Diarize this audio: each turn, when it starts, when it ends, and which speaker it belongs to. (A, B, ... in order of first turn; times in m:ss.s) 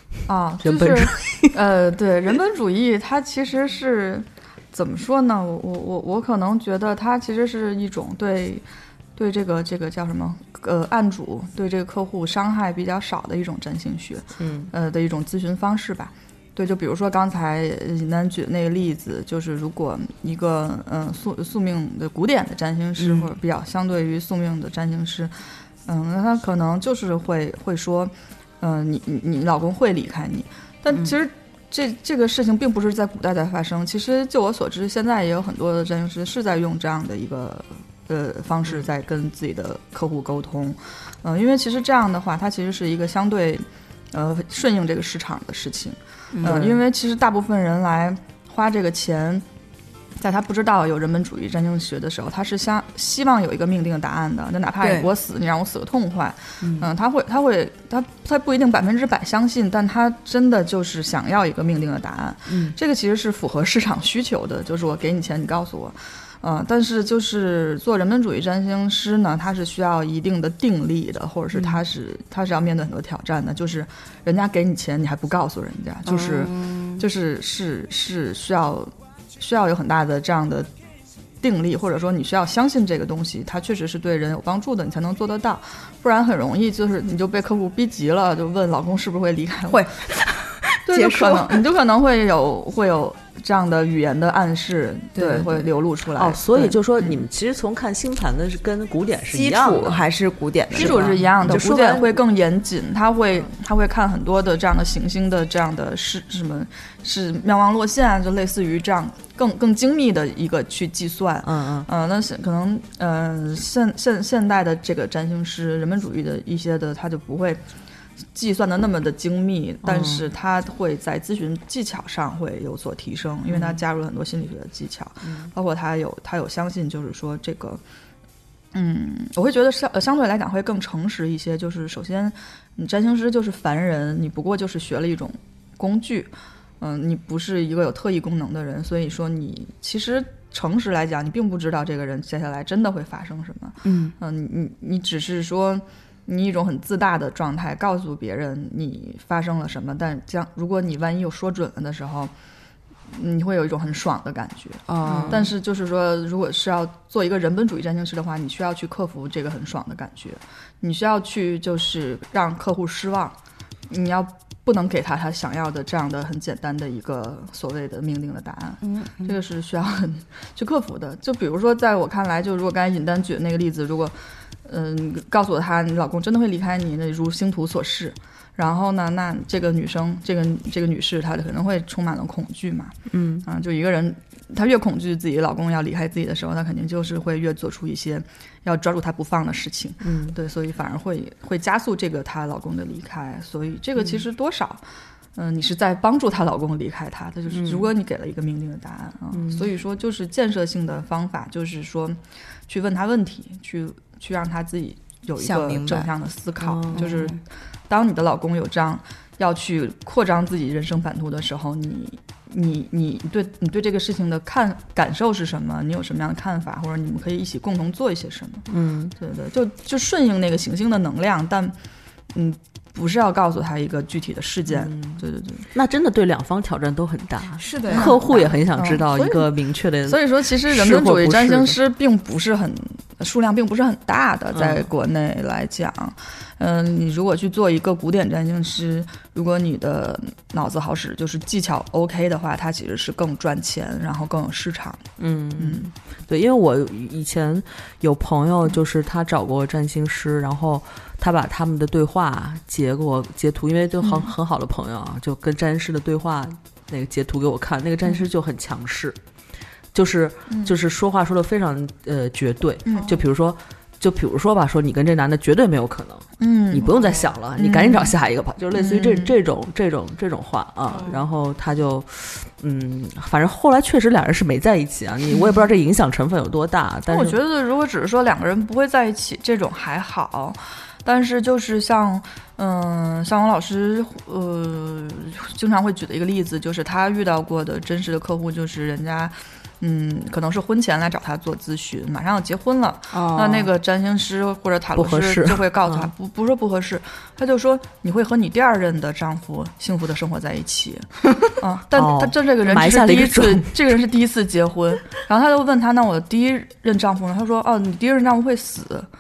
0:00.3-0:49.4 A
0:00.6-0:01.6 B
0:14.4-0:14.7 B
0:23.0-0:23.3 C
0:46.3-0:46.8 C
0:50.2-1:20.7 A
0:54.8-0:55.1 C
0:56.6-0:56.9 C
1:02.5-1:02.8 C
1:11.5-1:11.8 C
1:16.1-1:17.0 C
1:21.4-1:29.8 A
1:29.7-1:31.6 C
1:30.9-1:37.2 A
1:35.2-1:35.7 C
1:36.2-1:40.1 B
1:39.3-1:42.0 C
1:40.7-1:42.2 B
1:40.8-1:57.6 A
1:51.4-1:51.9 B
1:58.3-2:07.8 A
1:59.8-2:00.3 B
2:03.5-2:03.8 B
2:08.7-2:32.3 A
2:23.8-2:24.2 C
2:33.1-2:43.4 A
2:34.9-2:35.5 C
2:35.0-2:35.5 B
2:43.9-3:38.6 A
2:48.8-2:49.3 C
3:03.1-3:03.4 B
3:10.0-3:10.4 B
3:17.5-3:17.9 B
3:19.3-3:19.6 B
3:25.4-3:26.1 C
3:26.6-3:27.1 B
3:26.9-3:27.4 C
3:38.7-3:39.1 B
3:39.2-3:41.8 A
3:42.3-3:45.6 A
3:44.7-3:45.2 B
3:45.7-3:51.8 B
3:47.6-3:48.1 C
3:47.9-3:49.5 A
3:50.0-4:05.0 A
3:54.5-3:54.9 B
4:05.2-4:19.2 B
4:05.6-4:05.9 A
4:14.0-4:14.3 A
4:19.9-4:37.4 B
4:22.9-4:23.2 C
4:26.4-4:28.1 A
4:28.7-4:29.3 A
4:30.9-4:31.3 C
4:37.1-5:09.1 A
4:53.1-4:53.7 C
4:55.0-4:56.1 B
5:02.0-5:03.8 B